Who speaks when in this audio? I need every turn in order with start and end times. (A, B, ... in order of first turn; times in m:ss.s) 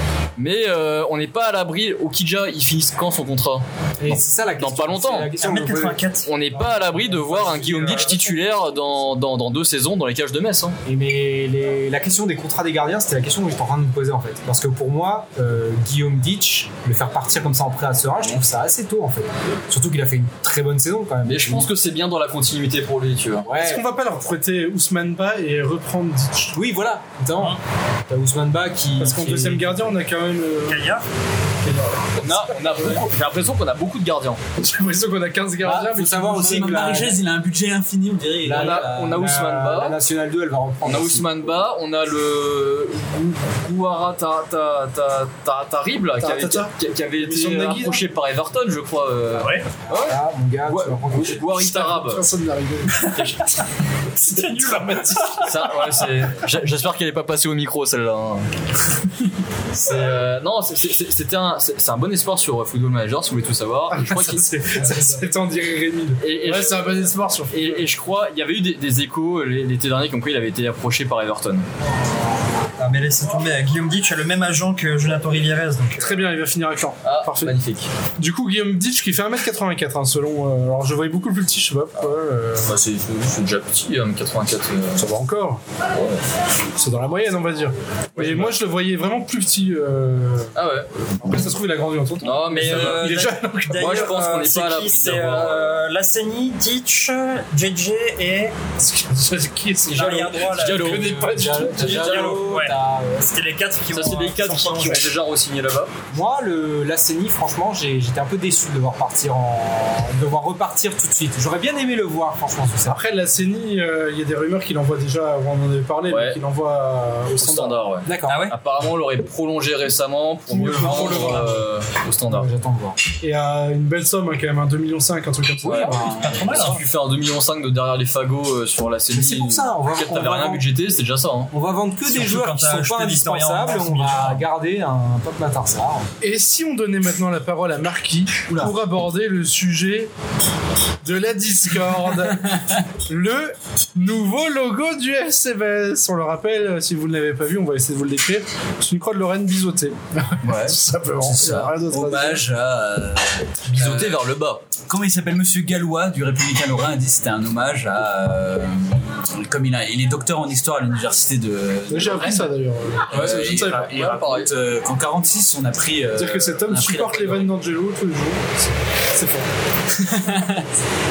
0:00.4-0:05.3 A
0:04.0-0:06.1 B
0:05.4-0:06.3 C
0:06.2-0:10.8 A
0:06.6-0:08.3 B
0:10.8-0:21.7 B
0:21.2-0:23.4 A
0:23.4-0:23.8 B
0:23.6-0:26.6 D
0:26.5-0:27.6 B
0:28.1-0:29.8 B
0:29.0-0:30.8 D
0:30.7-0:31.0 C
0:32.2-0:34.4 A
0:34.6-0:37.0 D
0:35.6-0:37.2 B
0:36.2-0:39.2 E
0:38.4-0:41.5 B
0:38.5-0:40.0 A
0:40.8-0:52.3 A
0:46.2-0:48.0 D
0:49.4-0:49.7 C
0:49.8-0:51.5 B
0:51.5-0:53.0 D
0:52.9-0:53.4 C
0:53.1-0:53.4 A
0:54.1-0:55.9 C
0:54.4-0:55.4 D
0:55.4-0:58.4 A
0:59.7-1:04.8 A
1:03.9-1:07.8 D
1:04.9-1:05.3 B
1:06.2-1:11.6 A
1:12.8-1:16.0 C
1:16.0-1:17.5 D
1:17.0-1:17.9 A
1:18.2-1:22.7 D
1:22.6-1:25.0 A
1:25.0-1:25.6 D
1:25.9-1:26.2 A
1:26.8-1:30.5 D
1:28.2-1:28.6 A
1:30.5-1:31.1 A
1:31.2-1:34.1 D
1:32.2-1:33.2 A
1:32.4-1:38.5 C
1:33.7-1:35.8 A
1:38.8-1:42.1 D
1:39.9-1:45.1 C
1:40.0-1:42.5 A
1:41.3-1:43.3 B
1:43.9-1:45.9 A
1:46.1-1:53.0 B
1:52.8-1:57.8 D
1:56.1-1:56.4 A
1:57.4-2:02.5 A
1:58.0-1:58.4 B
1:58.2-1:58.6 C
2:00.5-2:01.6 B
2:02.3-2:03.0 B
2:03.2-2:06.1 D
2:05.6-2:11.5 A
2:05.8-2:06.6 B
2:06.2-2:06.8 C
2:09.1-2:10.6 B
2:11.5-2:16.1 B
2:12.0-2:14.4 C
2:16.2-2:20.1 D
2:18.5-2:18.7 B
2:21.0-2:22.5 D
2:22.3-2:22.6 E
2:23.0-2:32.4 D
2:30.4-2:31.7 A
2:31.9-2:34.2 E
2:33.7-2:34.6 A
2:34.9-2:42.5 E
2:41.9-2:44.1 D
2:43.1-2:47.5 E
2:43.1-2:44.5 A
2:46.2-2:49.5 D
2:49.9-2:50.7 E